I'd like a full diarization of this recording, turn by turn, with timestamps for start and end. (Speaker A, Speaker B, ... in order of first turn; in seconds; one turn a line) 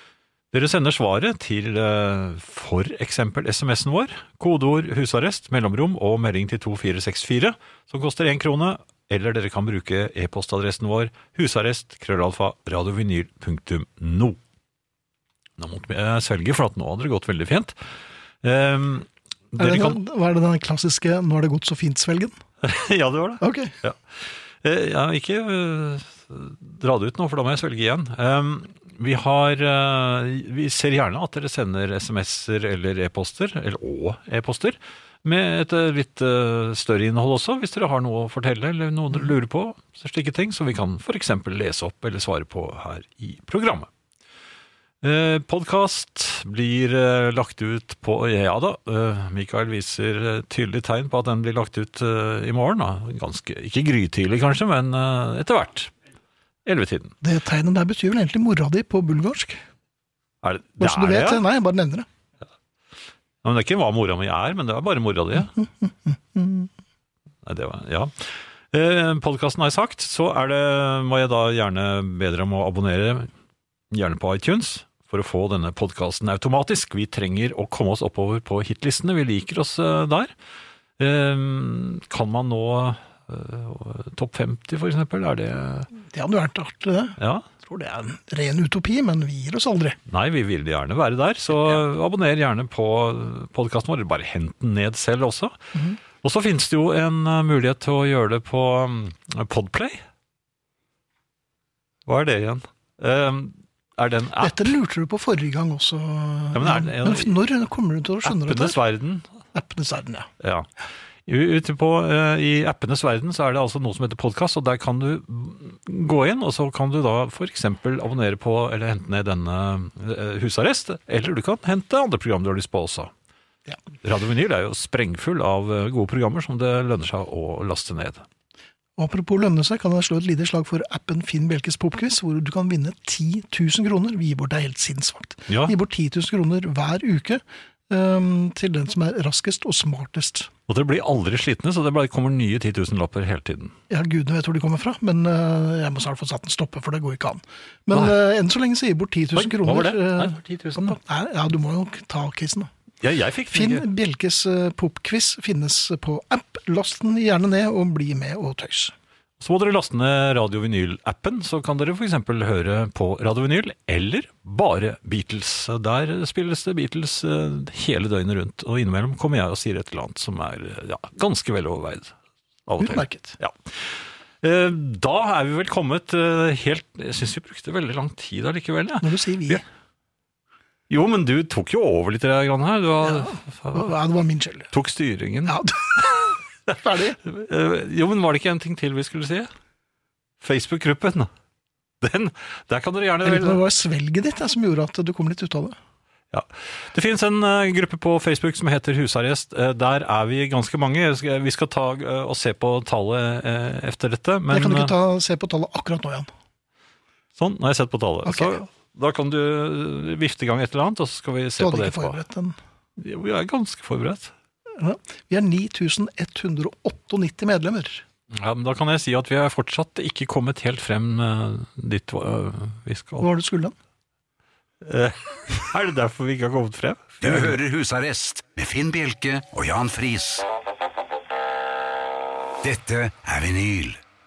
Speaker A: 0.5-14.4
Speaker A: 15.6-17.7
Speaker A: 18.4-20.0
Speaker B: 19.6-22.4
Speaker A: 22.6-43.9
Speaker B: 23.4-23.8
Speaker A: 45.0-55.9
Speaker A: 56.6-57.1
Speaker B: 57.2-59.6
Speaker A: 60.4-61.4
Speaker B: 60.8-62.1
Speaker A: 63.4-65.5
Speaker B: 65.4-66.7
Speaker A: 67.4-73.3
Speaker A: 73.9-80.3
Speaker A: 81.0-85.9
Speaker B: 86.0-90.0
Speaker A: 87.2-87.5
Speaker A: 90.1-95.6
Speaker B: 95.7-96.0
Speaker A: 96.2-100.0
Speaker A: 102.1-104.7
Speaker B: 104.4-108.8
Speaker A: 106.5-107.4
Speaker A: 108.2-109.3
Speaker B: 109.5-110.3
Speaker A: 110.4-110.7
Speaker A: 111.3-123.1
Speaker A: 124.0-128.2
Speaker B: 129.0-140.5
Speaker A: 135.5-135.7
Speaker A: 140.7-143.8
Speaker B: 143.9-152.7
Speaker A: 149.3-151.0
Speaker A: 153.0-153.8
Speaker B: 153.5-158.9
Speaker A: 159.4-172.1
Speaker A: 172.7-179.6
Speaker B: 172.8-173.4
Speaker B: 179.0-179.6
Speaker A: 180.9-183.9
Speaker B: 183.0-184.7
Speaker A: 184.7-185.6
Speaker B: 185.5-187.2
Speaker A: 187.2-189.5
Speaker A: 190.4-191.3
Speaker A: 192.0-193.6
Speaker B: 193.2-195.8
Speaker A: 196.3-204.9
Speaker B: 204.5-206.3
Speaker A: 207.4-212.2
Speaker B: 208.3-208.7
Speaker B: 211.6-212.6
Speaker A: 213.0-214.3
Speaker B: 214.8-218.0
Speaker A: 218.3-223.3
Speaker B: 223.2-223.8
Speaker A: 224.8-227.6
Speaker C: 227.2-230.4
Speaker C: 232.6-234.0